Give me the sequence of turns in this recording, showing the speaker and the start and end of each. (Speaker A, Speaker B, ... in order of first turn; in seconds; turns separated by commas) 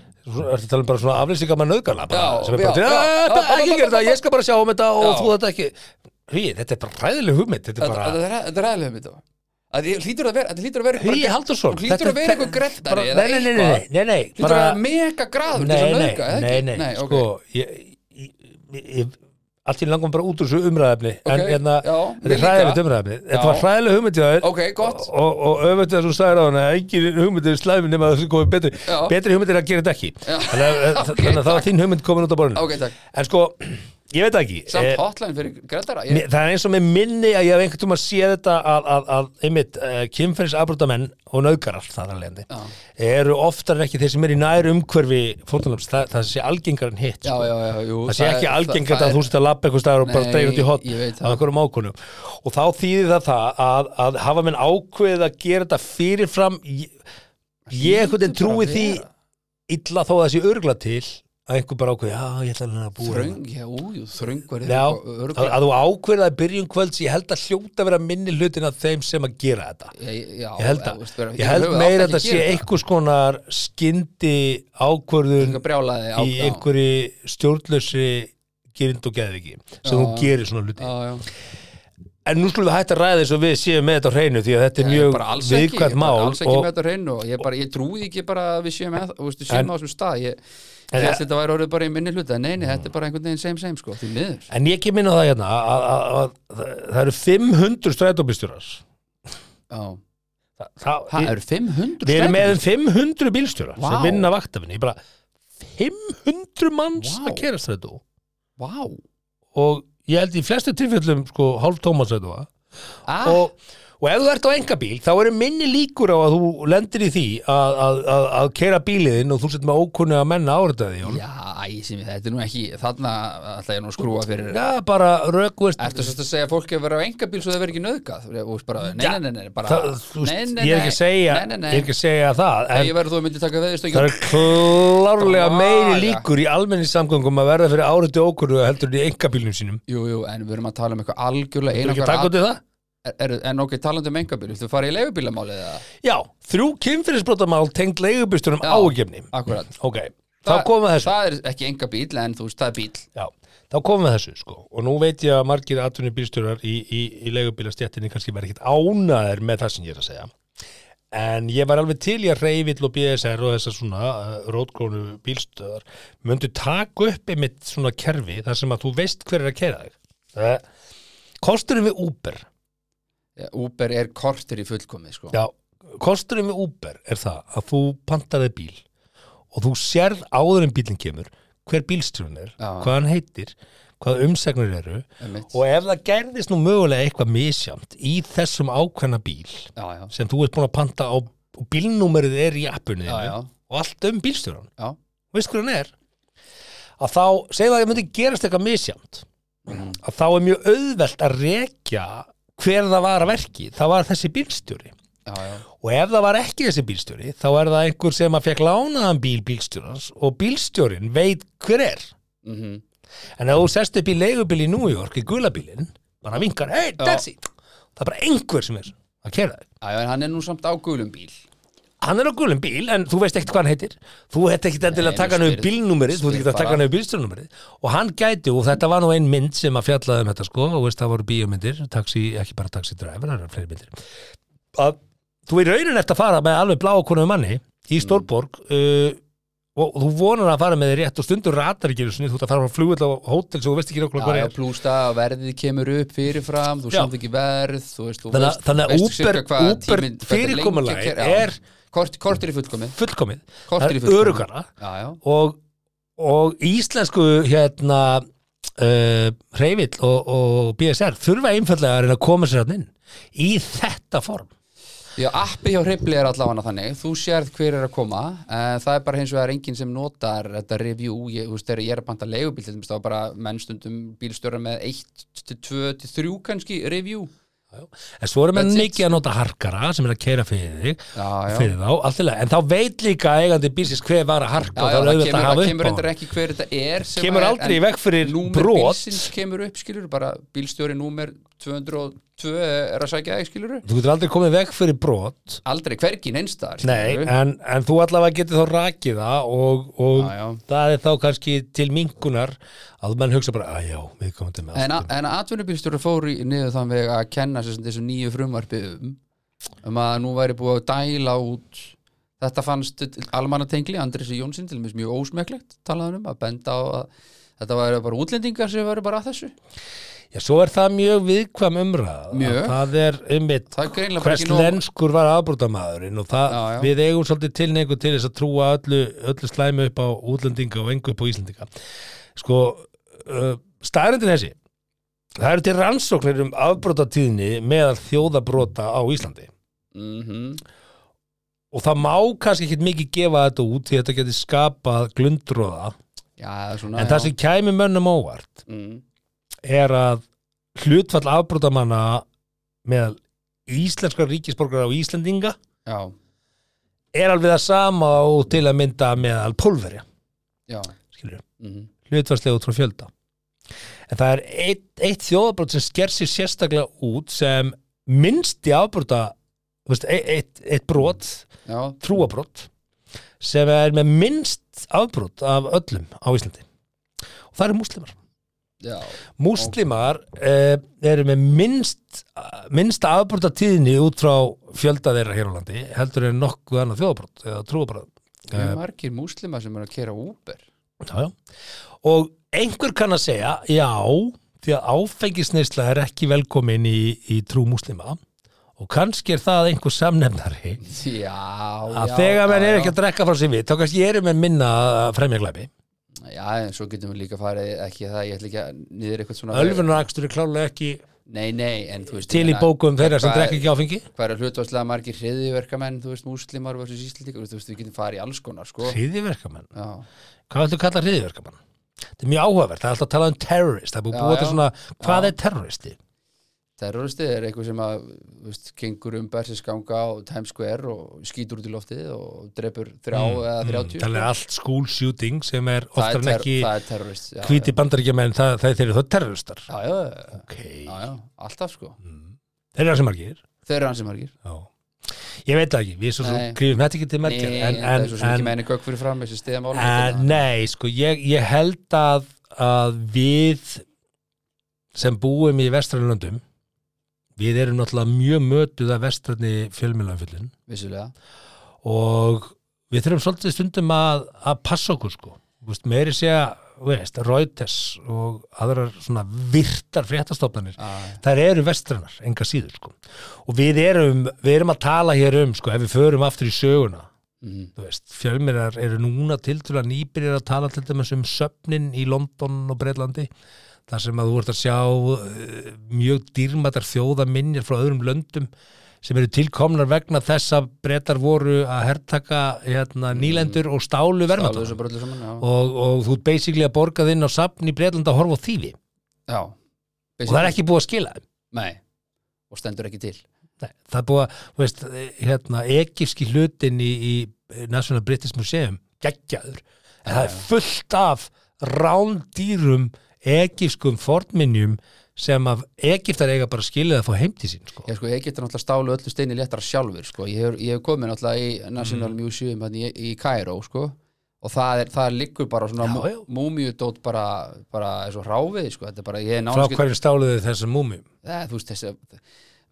Speaker A: 0.2-8.2, Speaker B: 2.1-4.2, Speaker B: 5.0-5.3, Speaker B: 7.8-13.8, Speaker A: 11.0-14.8, Speaker B: 14.4-17.3, Speaker A: 15.5-35.0, Speaker B: 21.3-23.7, Speaker B: 24.4-25.1, Speaker B: 28.9-29.1, Speaker B: 30.3-31.7, Speaker B: 32.5-33.0, Speaker B: 34.7-36.2, Speaker A: 36.1-47.5, Speaker B: 47.2-49.3, Speaker A: 48.1-57.0, Speaker B: 50.0-51.4, Speaker B: 57.7-59.1, Speaker A: 57.7-59.0, Speaker A: 59.7-63.4, Speaker B: 63.0-65.6, Speaker A: 64.6-70.0, Speaker B: 70.0-72.7, Speaker A: 70.6-75.6, Speaker B: 75.4-76.7, Speaker A: 76.2-80.9, Speaker B: 79.8-81.2, Speaker A: 82.3-86.7, Speaker B: 84.8-90.4, Speaker B: 90.9-94.5, Speaker A: 90.9-91.2, Speaker A: 94.5-98.8, Speaker B: 99.7-100.0, Speaker A: 100.6-101.3, Speaker B: 101.1-102.6, Speaker A: 102.0-105.0, Speaker B: 103.8-104.3, Speaker A: 105.6-108.0, Speaker B: 107.0-107.5, Speaker B: 108.6-109.0, Speaker A: 109.5-112.5, Speaker B: 113.1-113.5, Speaker A: 113.2-121.2, Speaker B: 121.0-124.6, Speaker A: 124.5-126.1, Speaker B: 125.8-131.9, Speaker A: 128.9-132.9, Speaker B: 132.7-136.3, Speaker A: 133.9-139.8, Speaker B: 139.9-142.4, Speaker A: 141.7-142.6, Speaker B: 143.1-145.9, Speaker A: 146.0-151.1, Speaker B: 148.6-149.7, Speaker B: 150.4-153.1, Speaker A: 153.2-160.3, Speaker A: 161.1-170.6, Speaker A: 171.4-172.5, Speaker B: 173.4-175.3, Speaker A: 175.3-178.8, Speaker A: 179.5-194.7, Speaker B: 182.6-182.9, Speaker B: 185.2-185.5, Speaker B: 189.8-190.1, Speaker B: 193.1-193.5, Speaker A: 195.3-195.9, Speaker A: 197.0-199.3, Speaker B: 199.7-200.0, Speaker A: 199.9-204.9, Speaker B: 205.3-205.6, Speaker A: 205.8-212.1, Speaker B: 212.4-212.8, Speaker A: 213.4-219.7, Speaker B: 217.0-217.2, Speaker B: 219.8-221.4, Speaker A: 222.0-233.9, Speaker B: 224.9-226.8, Speaker A: 234.7-239.2, Speaker B: 238.0-238.3, Speaker A: 239.8-244.5, Speaker B: 244.2-253.0, Speaker A: 248.3-251.6, Speaker A: 252.9-254.7, Speaker B: 253.7-255.2, Speaker A: 255.2-255.6, Speaker A: 256.2-258.2, Speaker A: 258.8-264.5, Speaker B: 265.2-277.3, Speaker A: 277.7-286.1, Speaker B: 278.6-279.1, Speaker B: 281.1-281.7, Speaker B: 284.8-293.9, Speaker A: 287.1-289.3, Speaker A: 293.9-295.6, Speaker B: 295.6-297.3, Speaker A: 296.8-305.1, Speaker B: 300.2-300.6, Speaker B: 304.8-309.2, Speaker B: 309.8-319.5, Speaker A: 320.3-331.7, Speaker B: 322.3-322.8, Speaker B: 323.7-324.8, Speaker B: 326.5-326.9, Speaker A: 332.4-334.6, Speaker A: 335.4-339.5, Speaker B: 339.9-340.6, Speaker A: 341.7-346.0, Speaker B: 346.4-347.3, Speaker A: 346.9-348.6, Speaker B: 348.7-349.0, Speaker A: 349.6-350.2, Speaker A: 350.8-352.3, Speaker A: 352.9-355.6, Speaker B: 355.9-356.1, Speaker A: 357.1-360.0, Speaker B: 360.7-360.9, Speaker A: 361.1-361.4, Speaker B: 361.6-361.9, Speaker A: 362.1-363.1, Speaker A: 364.1-369.3, Speaker A: 369.9-371.5, Speaker B: 371.7-372.0, Speaker A: 372.0-372.7, Speaker A: 373.4-376.6, Speaker A: 377.5-378.2, Speaker B: 378.8-379.8, Speaker A: 379.4-388.8, Speaker B: 388.5-390.6, Speaker A: 391.0-391.4, Speaker A: 392.0-398.2, Speaker A: 398.8-400.8, Speaker B: 400.8-403.0, Speaker A: 401.9-405.7, Speaker B: 406.2-409.9, Speaker A: 409.5-411.0, Speaker B: 411.3-419.0, Speaker A: 412.3-414.1, Speaker A: 418.9-419.7, Speaker B: 419.7-420.1, Speaker A: 420.5-421.6, Speaker A: 422.2-426.0, Speaker B: 424.1-425.3, Speaker B: 426.8-434.3, Speaker A: 433.1-436.7, Speaker B: 436.0-437.7, Speaker A: 437.4-439.7, Speaker B: 439.7-442.0, Speaker A: 440.3-441.0, Speaker A: 442.0-443.4, Speaker B: 443.6-444.3, Speaker A: 444.4-448.5, Speaker B: 446.2-446.6, Speaker B: 447.2-450.4, Speaker A: 449.7-453.8, Speaker A: 454.9-456.4, Speaker A: 457.4-460.5, Speaker B: 460.7-461.1, Speaker A: 461.8-477.1, Speaker B: 470.8-471.2, Speaker B: 477.4-477.7, Speaker A: 477.8-483.3, Speaker A: 483.9-488.5, Speaker A: 489.0-494.8, Speaker B: 493.1-493.6, Speaker B: 494.3-495.4, Speaker A: 495.4-498.8, Speaker B: 499.3-499.6, Speaker B: 500.2-500.6, Speaker A: 500.3-501.2, Speaker B: 501.5-501.8, Speaker B: 502.5-503.2, Speaker A: 503.6-517.9, Speaker B: 510.1-510.5, Speaker B: 517.9-529.8, Speaker A: 521.8-522.1, Speaker A: 525.8-526.2, Speaker A: 529.5-531.1, Speaker B: 531.2-532.2